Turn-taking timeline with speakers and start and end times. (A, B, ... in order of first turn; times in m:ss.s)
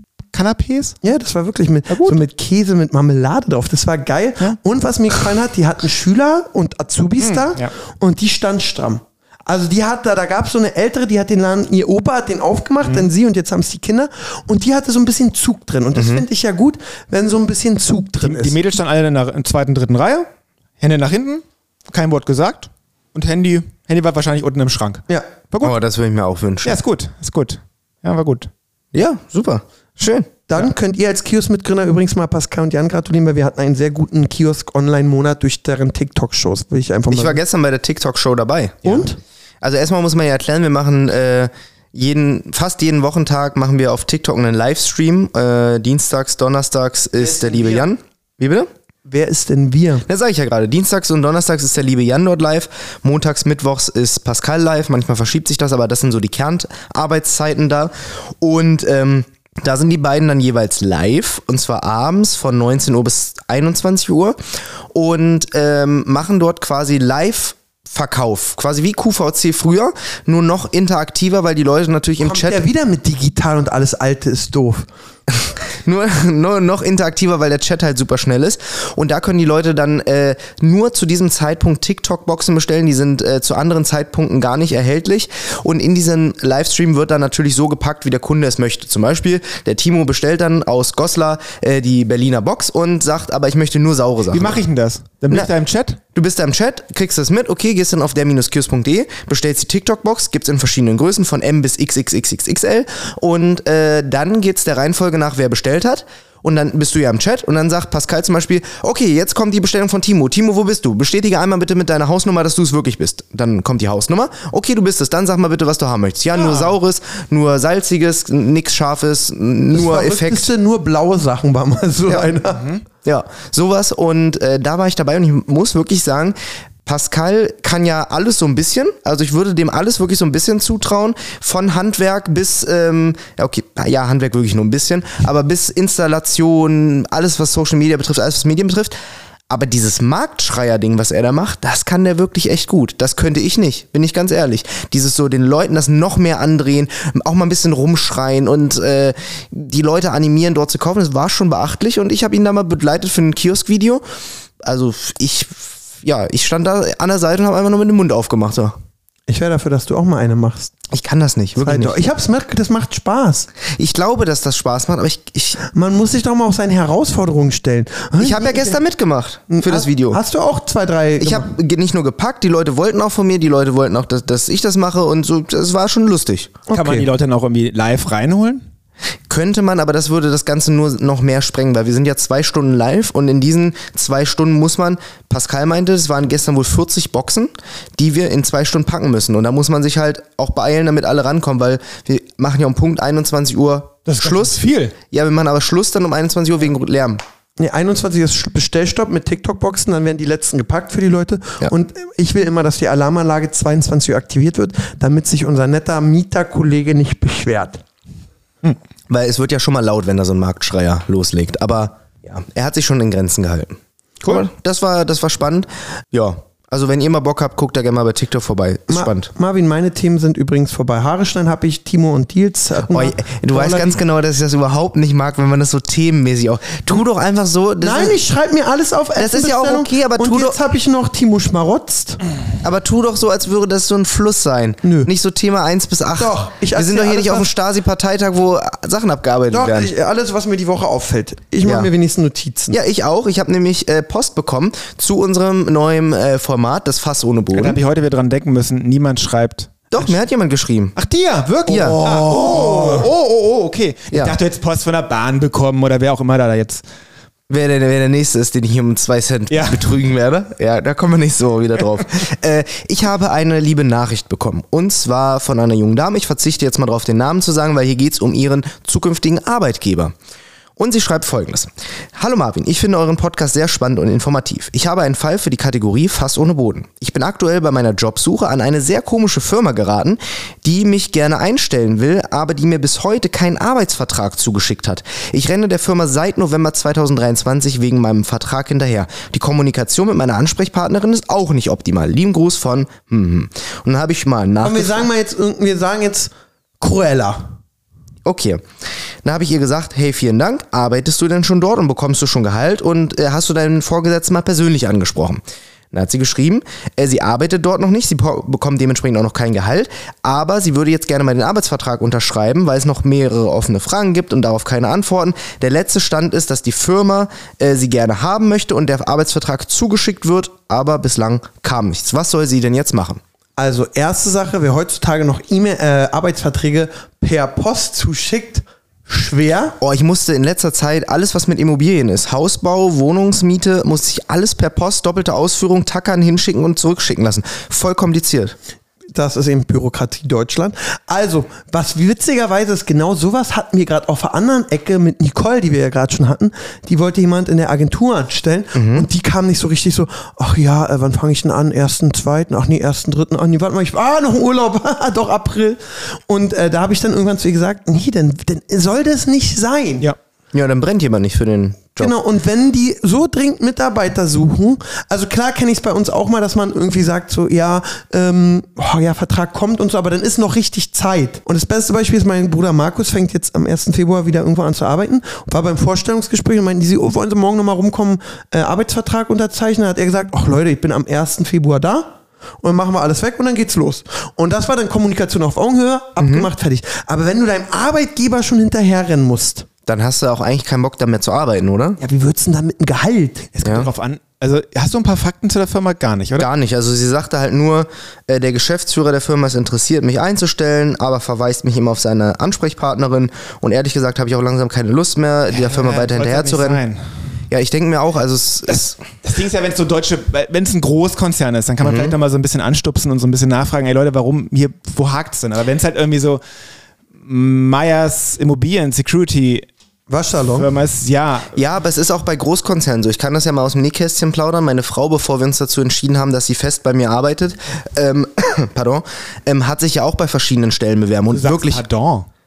0:00.3-0:01.0 A
0:01.0-0:18.6 B
0:01.9-0:02.2 A
0:07.2-0:07.7 A
0:12.8-0:13.1 A
0:15.9-0:16.2 C
0:18.2-0:20.3 A
0:20.8-0:25.8 A
0:25.6-0:26.8 C
0:26.6-0:28.5 A
0:28.9-0:30.3 C
0:30.5-0:37.4 B
0:37.1-0:39.0 C
0:38.8-0:39.2 B
0:39.6-0:48.7 C
0:47.4-0:47.8 B
0:49.1-0:50.0 B
0:50.1-1:04.4 C
1:04.9-1:12.6 C
1:12.2-1:14.9 B
1:15.4-1:34.6 C
1:34.3-1:36.0 A
1:36.2-2:00.5 C
1:56.3-1:56.7 A
1:59.7-2:02.6 B
2:02.1-2:02.8 A
2:03.0-2:18.9 C
2:19.5-2:34.0 C
2:34.6-2:38.7 C
2:39.3-2:40.7 B
2:40.9-2:42.0 C
2:41.6-2:43.5 B
2:43.8-2:45.6 C
2:45.7-2:48.8 B
2:48.2-2:50.2 C
2:49.5-2:51.5 B
2:51.2-2:56.6 C
2:56.7-2:57.1 B
2:56.7-2:58.6 A
2:59.3-3:14.6 C
3:14.1-3:14.9 A
3:15.1-3:17.2 C
3:17.6-3:27.8 B
3:29.1-3:39.3 C
3:38.9-3:44.0 B
3:42.9-3:48.2 C
3:47.8-3:52.2 B
3:49.2-3:50.6 C
3:52.6-3:59.9 C
3:54.8-3:55.1 B
3:56.2-3:57.5 B
3:59.5-4:02.8 B
4:01.6-4:01.9 C
4:02.7-4:07.8 C
4:07.5-4:10.1 A
4:09.9-4:11.0 C
4:11.0-4:16.8 A
4:11.7-4:12.0 C
4:12.0-4:13.0 B
4:17.5-4:30.1 C
4:19.5-4:19.9 A
4:30.8-4:55.0 C
4:54.6-4:57.5 B
4:58.2-4:58.6 C
4:59.2-5:05.4 C
5:05.9-5:23.2 C
5:23.6-5:29.8 B
5:29.8-5:38.5 C
5:39.1-6:00.1 B
5:48.8-5:49.1 C
6:00.5-6:02.2 C
6:02.0-6:29.7 B
6:26.2-6:26.5 C
6:29.9-6:32.0 C
6:32.0-6:33.5 B
6:33.5-6:36.5 A
6:33.6-6:33.9 C
6:36.4-6:46.8 C
6:45.5-6:47.0 A
6:47.5-6:49.0 C
6:48.7-6:56.4 A
6:51.8-6:52.2 C
6:57.2-6:59.7 A
7:00.1-7:00.7 B
7:00.5-7:01.6 A
7:01.5-7:11.8 C
7:11.3-7:12.3 A